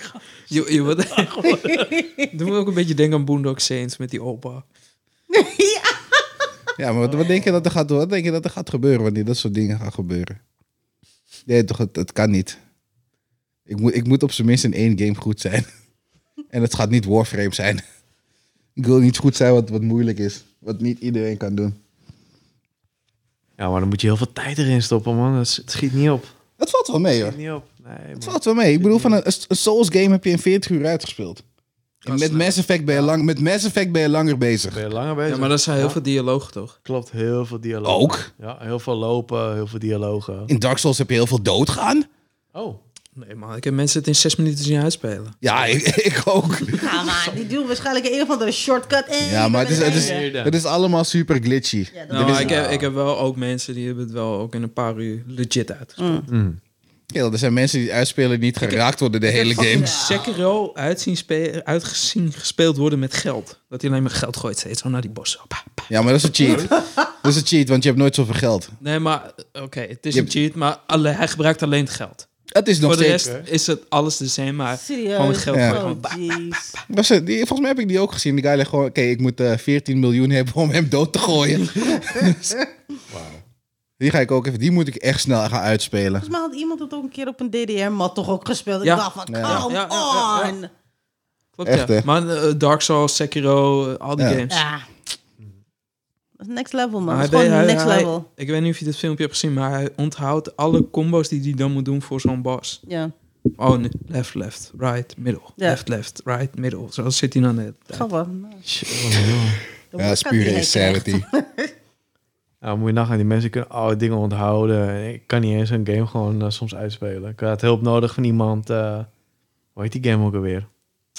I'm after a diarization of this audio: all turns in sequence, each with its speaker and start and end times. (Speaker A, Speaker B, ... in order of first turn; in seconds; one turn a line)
Speaker A: 0.5-1.7
Speaker B: 1.1-1.9
Speaker C: 1.8-2.2
Speaker A: 2.2-4.6
Speaker C: 5.3-6.2
Speaker D: 6.8-10.4
Speaker B: 7.1-7.7
Speaker D: 11.5-12.6
Speaker D: 13.7-15.7
Speaker D: 16.5-17.8
Speaker D: 18.8-21.8
Speaker B: 23.6-26.3
Speaker D: 26.6-27.4
Speaker B: 27.2-29.2
Speaker D: 28.2-31.4
Speaker D: 32.0-34.8
Speaker A: 32.0-32.6
Speaker B: 32.9-33.1
Speaker B: 34.7-36.0
Speaker A: 35.3-36.8
Speaker B: 36.8-40.5
Speaker D: 37.8-38.3
Speaker D: 40.5-42.1
Speaker B: 42.5-42.8
Speaker A: 43.1-45.4
Speaker D: 45.4-47.0
Speaker C: 46.8-50.2
Speaker D: 49.2-52.6
Speaker B: 49.7-50.5
Speaker C: 51.9-52.5
Speaker A: 52.1-56.2
Speaker B: 52.3-52.9
Speaker C: 56.0-56.2
Speaker B: 56.3-56.6
Speaker D: 57.1-60.0
Speaker A: 58.6-65.9
Speaker C: 59.4-60.3
Speaker D: 65.9-68.7
Speaker B: 66.4-66.7
Speaker C: 66.5-67.0
Speaker A: 68.8-72.2
Speaker D: 72.5-73.2
Speaker A: 72.8-76.7
Speaker B: 73.1-73.5
Speaker C: 74.7-76.8
Speaker D: 75.5-75.8
Speaker D: 76.9-82.6
Speaker B: 83.1-83.4
Speaker D: 84.0-86.3
Speaker C: 86.2-90.7
Speaker A: 88.8-90.5
Speaker D: 89.3-89.7
Speaker A: 91.6-94.6
Speaker D: 91.6-92.0
Speaker C: 94.5-94.9
Speaker C: 96.4-98.2
Speaker A: 97.1-102.8
Speaker C: 102.9-103.1
Speaker A: 103.6-108.1
Speaker C: 107.9-108.6
Speaker B: 108.7-109.6
Speaker C: 109.9-111.7
Speaker D: 110.0-111.2
Speaker B: 112.6-119.1
Speaker B: 119.7-120.7